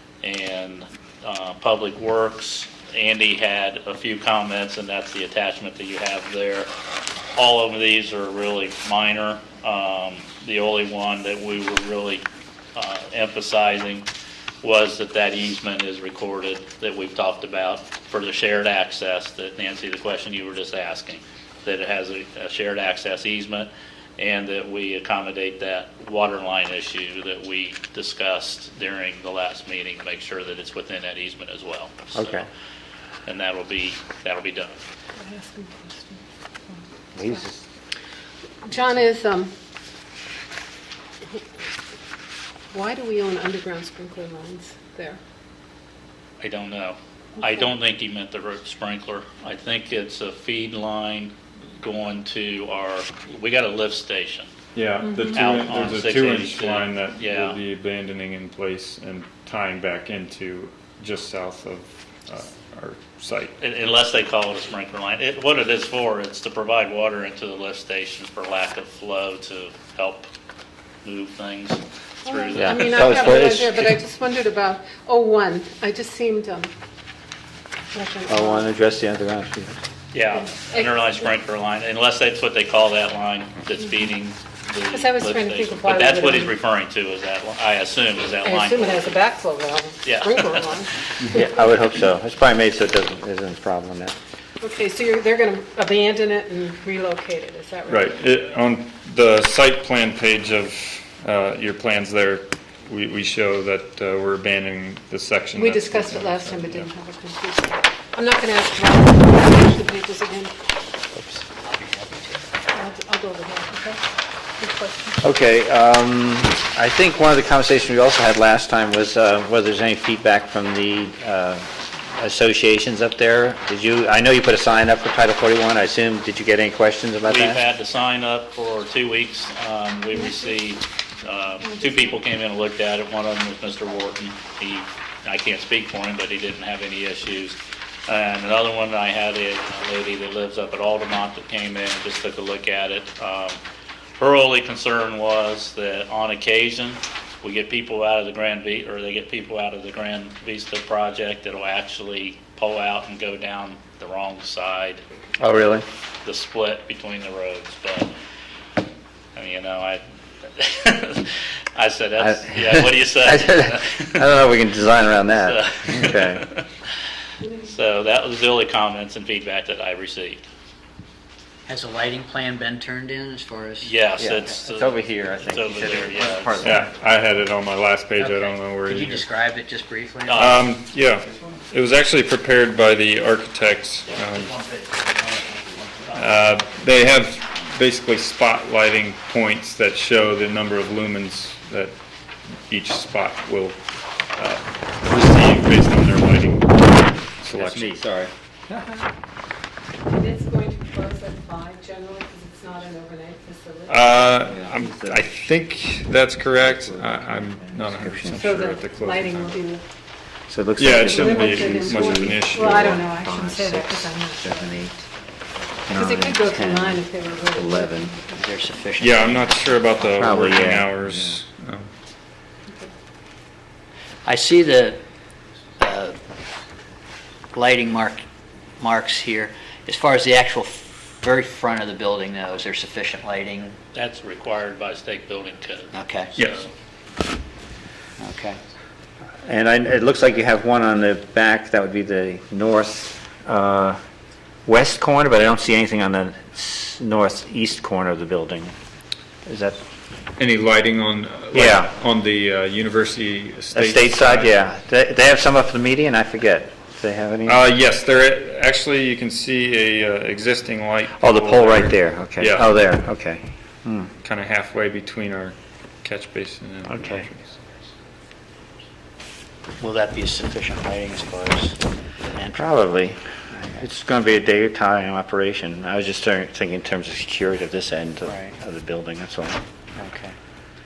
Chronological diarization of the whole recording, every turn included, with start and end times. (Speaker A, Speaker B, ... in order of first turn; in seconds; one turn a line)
Speaker A: 0.2-6.7
Speaker A: 7.3-14.1
Speaker A: 14.6-32.4
Speaker B: 32.1-32.5
Speaker A: 33.2-34.8
Speaker C: 35.2-37.4
Speaker B: 37.1-37.6
Speaker C: 38.6-39.5
Speaker C: 42.7-45.2
Speaker A: 46.4-54.5
Speaker D: 54.7-63.5
Speaker C: 55.0-55.5
Speaker A: 55.3-57.6
Speaker A: 63.6-70.3
Speaker A: 71.0-73.5
Speaker C: 72.2-76.7
Speaker B: 72.5-73.9
Speaker C: 77.9-78.7
Speaker B: 78.3-79.8
Speaker A: 80.1-89.1
Speaker C: 80.5-80.9
Speaker C: 84.9-86.5
Speaker C: 88.4-91.5
Speaker A: 90.0-90.8
Speaker B: 91.3-94.2
Speaker C: 94.6-98.1
Speaker D: 97.9-106.9
Speaker C: 105.5-110.5
Speaker E: 111.3-112.4
Speaker C: 112.7-114.0
Speaker C: 114.6-115.2
Speaker B: 115.2-127.6
Speaker A: 127.2-143.6
Speaker C: 130.1-130.5
Speaker C: 131.6-132.2
Speaker A: 144.2-155.0
Speaker B: 155.4-155.8
Speaker A: 156.2-158.1
Speaker A: 159.3-160.0
Speaker A: 160.6-164.4
Speaker B: 162.2-166.4
Speaker A: 165.2-166.7
Speaker C: 167.4-167.7
Speaker A: 167.6-170.4
Speaker E: 171.7-173.9
Speaker A: 173.8-176.7
Speaker B: 174.2-176.9
Speaker D: 176.6-179.2
Speaker E: 178.2-180.6
Speaker A: 180.3-180.6
Speaker D: 180.3-184.5
Speaker E: 184.5-186.1
Speaker D: 186.1-191.9
Speaker D: 192.7-193.8
Speaker D: 194.3-198.0
Speaker B: 197.5-198.3
Speaker C: 200.1-204.2
Speaker D: 203.9-209.6
Speaker B: 204.4-205.3
Speaker B: 206.5-208.5
Speaker C: 208.3-209.8
Speaker B: 210.5-215.0
Speaker D: 210.8-213.0
Speaker C: 210.9-214.8
Speaker B: 215.9-218.1
Speaker C: 215.9-218.5
Speaker E: 218.3-219.9
Speaker D: 219.0-221.9
Speaker B: 220.1-221.3
Speaker E: 224.2-225.0
Speaker E: 225.8-226.2
Speaker E: 227.5-228.2
Speaker E: 228.8-233.8
Speaker A: 233.9-236.7
Speaker E: 235.9-236.3
Speaker E: 238.2-238.6
Speaker B: 239.4-244.0
Speaker B: 244.7-248.7
Speaker B: 249.4-249.8
Speaker D: 250.4-254.5
Speaker B: 251.5-251.9
Speaker B: 253.7-257.6
Speaker D: 257.4-262.7
Speaker B: 261.1-264.1
Speaker D: 264.2-267.5
Speaker B: 266.9-267.3
Speaker E: 269.8-271.8
Speaker E: 272.4-272.6
Speaker B: 272.5-279.6
Speaker E: 278.2-278.6
Speaker E: 279.9-280.3